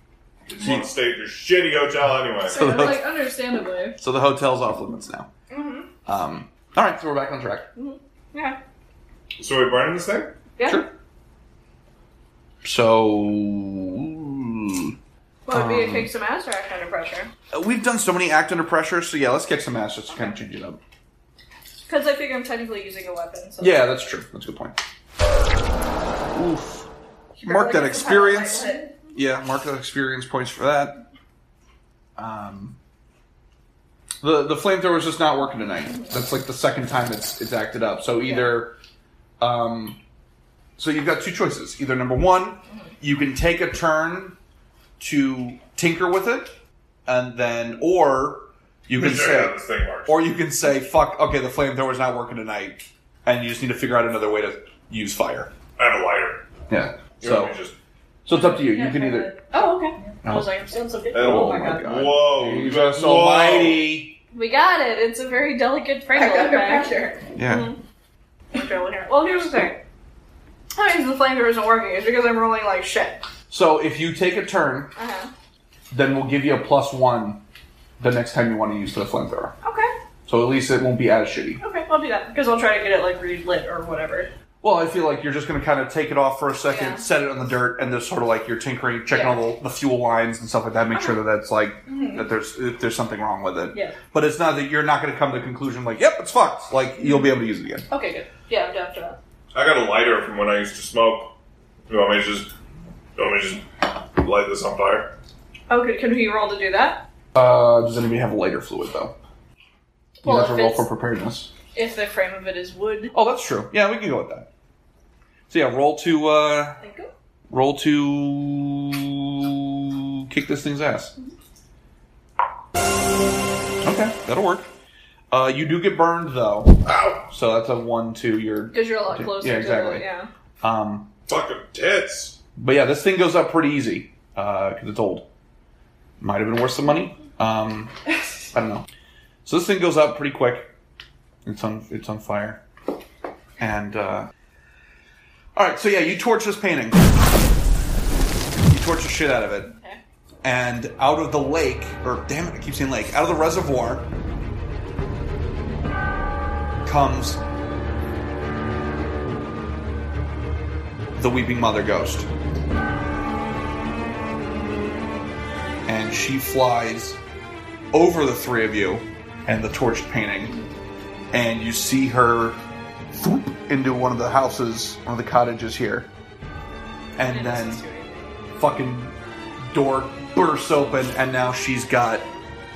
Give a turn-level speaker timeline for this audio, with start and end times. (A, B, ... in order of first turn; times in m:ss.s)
0:00.5-0:02.6 A
0:00.6-0:00.9 B
0:02.4-0:04.0 C
0:02.5-0:03.2 B
0:04.0-0:05.3 B
0:05.5-0:05.9 D
0:06.1-0:07.7 B
0:07.8-0:08.6 C
0:09.4-0:10.4 A
0:10.6-0:10.9 C
0:10.6-0:10.9 B
0:12.6-0:14.9 B
0:15.4-0:17.3 C
0:15.5-0:16.1 B
0:17.5-0:20.8 B
0:21.9-0:24.0 C
0:23.6-0:24.8 B
0:26.3-0:26.9 B
0:27.4-0:28.9 D
0:27.4-0:31.0 B
0:32.2-0:32.8 B
0:34.2-0:38.8 B
0:39.4-0:40.0 B
0:40.8-0:44.4 B
0:45.0-0:46.5 B
0:47.1-0:55.5 B
0:48.9-0:50.2 A
0:55.8-0:56.4 A
0:56.7-0:57.5 B
0:57.2-0:57.8 A
0:58.2-0:59.3 B
0:58.3-1:00.1 D
0:59.5-1:02.0 C
1:00.2-1:00.5 B
1:01.1-1:03.8 A
1:01.1-1:04.2 B
1:04.3-1:06.9 C
1:06.1-1:07.2 D
1:07.4-1:07.7 B
1:07.4-1:07.8 C
1:08.5-1:09.8 C
1:10.7-1:13.2 C
1:13.5-1:14.9 B
1:15.0-1:15.3 C
1:15.9-1:17.4 B
1:18.0-1:19.5 B
1:19.6-1:19.9 C
1:20.2-1:21.6 B
1:21.6-1:24.3 C
1:24.6-1:37.9 B
1:26.7-1:27.0 C
1:29.1-1:29.4 C
1:31.9-1:32.3 D
1:33.7-1:34.0 C
1:37.9-1:39.2 C
1:39.5-1:41.3 A
1:41.9-1:42.5 A
1:43.2-1:43.6 A
1:44.2-1:45.1 A
1:45.7-1:47.1 C
1:47.3-1:49.1 B
1:50.2-1:50.9 C
1:50.2-1:51.5 B
1:51.8-1:53.1 C
1:53.1-1:54.5 B
1:55.5-1:56.8 B
1:56.8-1:57.1 C
1:57.5-2:01.1 B
2:03.8-2:04.7 B
2:05.3-2:10.0 B
2:06.8-2:07.3 A
2:08.7-2:10.3 C
2:10.6-2:11.1 B
2:11.3-2:12.4 A
2:12.6-2:15.2 B
2:16.2-2:17.9 B
2:18.5-2:18.8 B
2:19.4-2:20.7 B
2:21.4-2:22.6 B
2:23.6-2:24.3 B
2:25.6-2:27.1 B
2:28.6-2:29.7 B
2:29.7-2:30.0 C
2:30.4-2:34.1 B
2:36.8-2:37.4 B
2:41.1-2:42.3 B
2:45.9-2:47.2 B
2:47.9-2:50.6 B
2:51.3-2:52.6 B
2:53.1-2:56.1 B
2:57.2-2:57.8 B
2:57.2-2:58.4 C
2:58.6-2:59.1 B
2:59.7-3:02.3 B